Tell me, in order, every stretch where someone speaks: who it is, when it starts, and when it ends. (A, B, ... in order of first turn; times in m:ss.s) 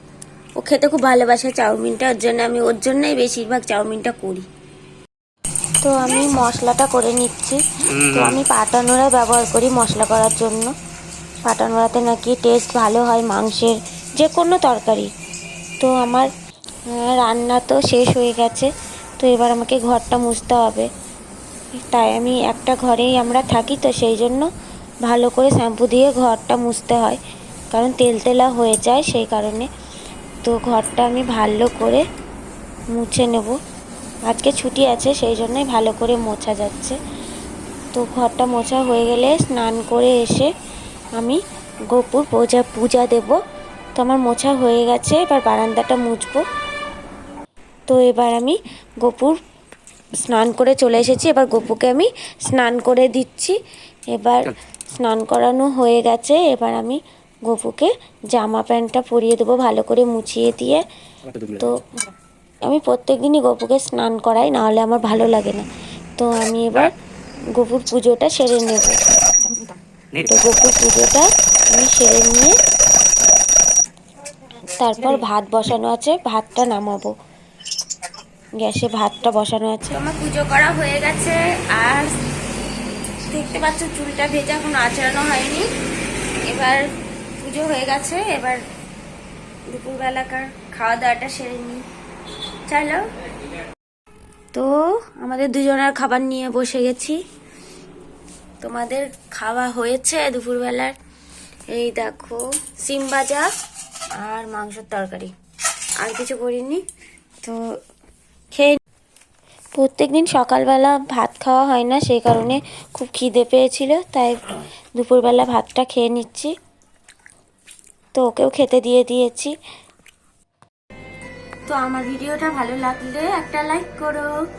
0:00.6-0:04.4 A
0:05.8-0:10.7 A
0:11.4-0:15.1 A
0:15.8-0:16.3 A
0:16.9-0:20.9 A
0:21.8-0:24.5 A
0:25.0-0:27.2 A
0:27.7-0:29.7 A
0:30.4-0:32.0 A
0:32.9-0:33.6 A
0:34.3-0:37.0 A
0:37.9-0:40.5 A
0:41.9-0:43.4 A
0:44.0-0:46.4 A
0:47.9-0:49.4 A
0:50.2-0:53.6 A
0:54.1-1:00.8 A
1:01.5-1:01.8 A
1:02.6-1:05.6 A
1:06.2-1:06.9 A
1:07.6-1:09.5 A
1:10.2-1:12.6 A
1:14.7-1:17.1 A
1:18.6-1:22.1 A
1:23.3-1:25.7 A
1:26.5-1:26.9 A
1:27.4-1:28.6 A
1:29.7-1:31.8 A
1:32.7-1:33.0 A
1:34.5-1:37.2 A
1:38.6-1:40.9 A
1:41.7-1:43.5 A
1:44.2-1:45.3 A
1:46.0-1:46.8 A
1:48.5-1:48.8 A
1:49.8-1:54.4 A
1:55.0-1:56.5 A
1:58.2-1:59.6 A
2:01.7-2:04.4 A